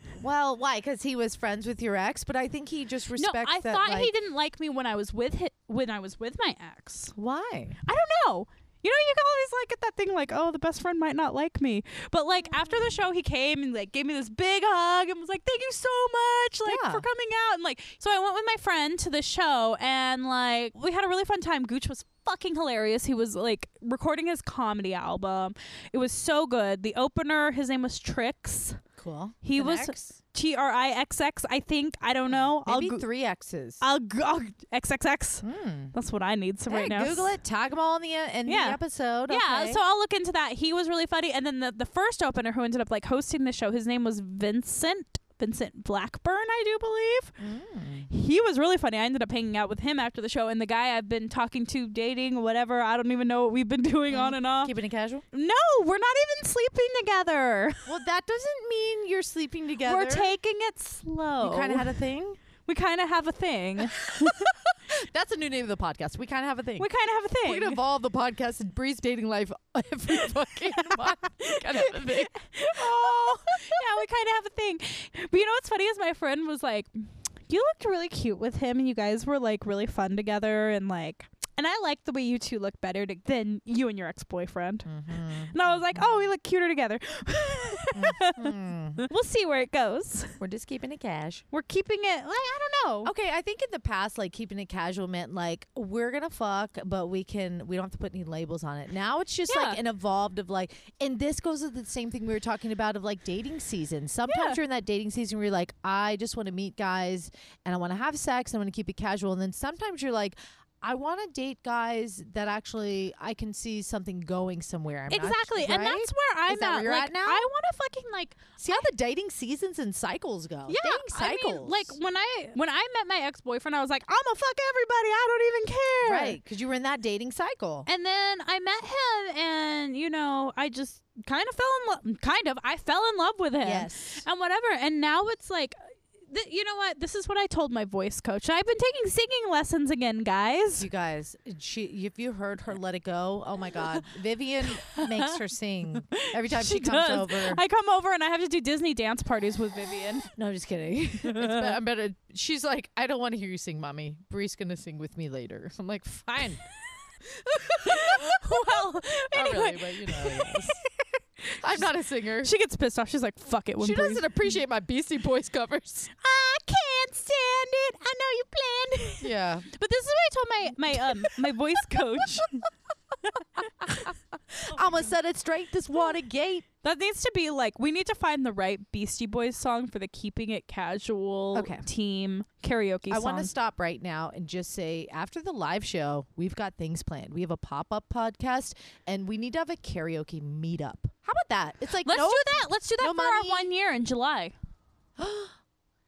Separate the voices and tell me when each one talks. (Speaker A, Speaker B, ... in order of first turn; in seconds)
Speaker A: 0.2-4.1, 7.1-7.8, 12.5-12.9, 16.6-17.1, 29.0-30.2, 32.3-33.8, 35.4-35.9, 36.7-39.8, 47.4-48.1, 54.1-55.2, 57.9-60.3, 61.4-62.4, 64.0-66.9, 67.4-72.9, 84.8-86.3, 87.9-89.1, 90.4-91.4, 93.0-117.5, 118.6-122.0, 126.0-127.9, 133.6-134.2, 140.8-147.6, 150.3-156.6, 157.4-160.8, 161.6-162.5, 163.8-166.1, 169.2-169.7, 170.9-171.3, 173.8-174.1, 174.7-176.7, 181.5-181.8, 183.1-193.7, 195.2-195.5
Speaker B: 3.1-7.1, 7.8-28.8, 29.4-33.0, 33.8-37.3, 38.5-47.4, 48.1-54.7, 55.3-57.9, 59.8-61.9, 62.6-64.5, 66.8-67.8, 70.8-84.9, 85.5-90.4, 91.5-93.1, 99.5-99.8, 104.3-104.6, 115.1-118.8, 120.7-126.4, 127.8-140.9, 144.8-145.3, 146.1-150.3, 151.2-151.7, 157.8-161.8, 162.4-164.3, 166.2-172.6, 173.2-174.1, 174.7-175.1, 176.8-183.5, 192.0-194.5